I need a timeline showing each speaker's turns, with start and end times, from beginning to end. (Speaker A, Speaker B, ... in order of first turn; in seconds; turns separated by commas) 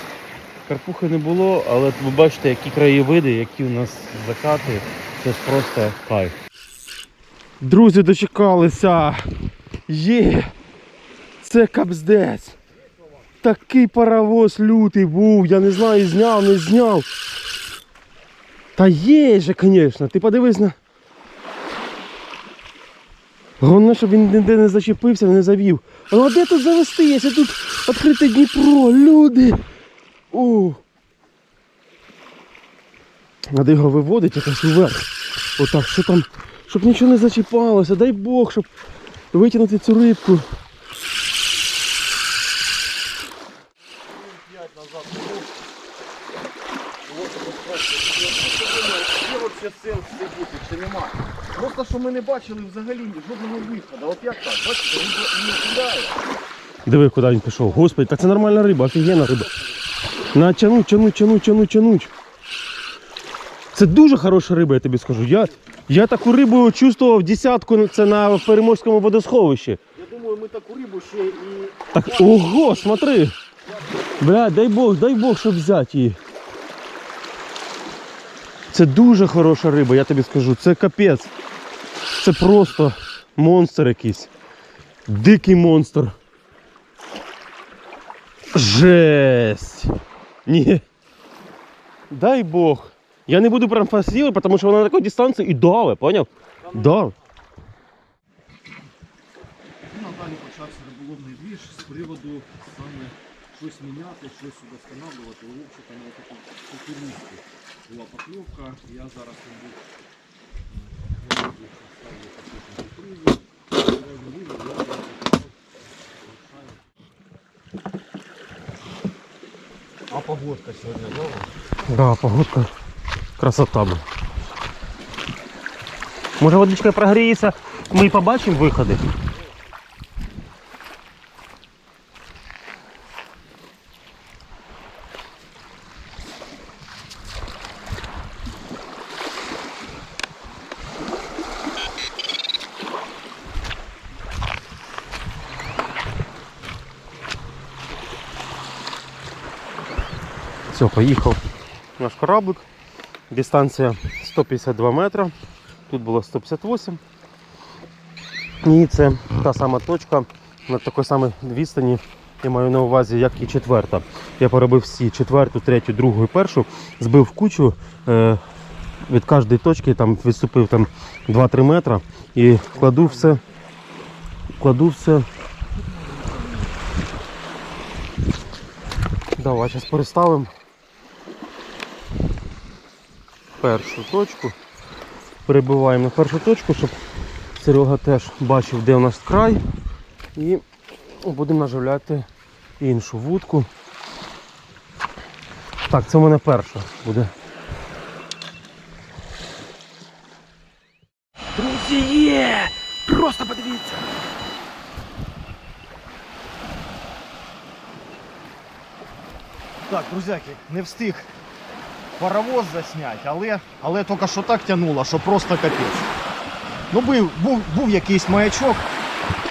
Speaker A: 0.7-6.3, Speaker A: 7.6-9.2, Speaker A: 9.9-10.5, Speaker A: 11.4-12.6, Speaker A: 13.4-17.1, Speaker A: 18.8-20.8, Speaker A: 23.6-29.6, Speaker A: 30.3-30.8, Speaker A: 33.5-35.1, Speaker A: 35.6-38.7, Speaker A: 39.3-40.4, Speaker B: 44.1-45.5, Speaker B: 47.1-56.2, Speaker A: 56.9-59.5, Speaker A: 60.3-62.1, Speaker A: 63.7-69.8, Speaker B: 69.9-73.1, Speaker A: 71.9-73.3, Speaker A: 74.2-76.2, Speaker A: 78.7-81.3, Speaker A: 82.2-84.3, Speaker A: 85.1-86.1, Speaker A: 88.5-90.8, Speaker A: 92.1-97.1, Speaker B: 96.6-97.0, Speaker B: 99.9-109.8, Speaker B: 110.7-115.5, Speaker B: 116.2-116.8, Speaker B: 120.1-121.5, Speaker A: 121.9-122.7, Speaker A: 123.4-124.0, Speaker A: 126.4-129.0, Speaker A: 150.7-151.4, Speaker A: 152.0-152.7, Speaker A: 153.3-155.3, Speaker A: 155.9-157.0, Speaker A: 158.6-168.4, Speaker A: 169.0-173.4, Speaker A: 174.6-175.3, Speaker B: 175.9-176.7, Speaker A: 179.4-180.5, Speaker A: 183.6-184.6, Speaker A: 185.4-186.9, Speaker A: 187.6-189.6, Speaker A: 190.4-190.6, Speaker A: 191.2-192.2, Speaker A: 192.8-193.7, Speaker A: 195.9-197.3, Speaker A: 201.6-204.1, Speaker B: 209.9-211.3, Speaker B: 212.2-216.1, Speaker B: 216.9-218.8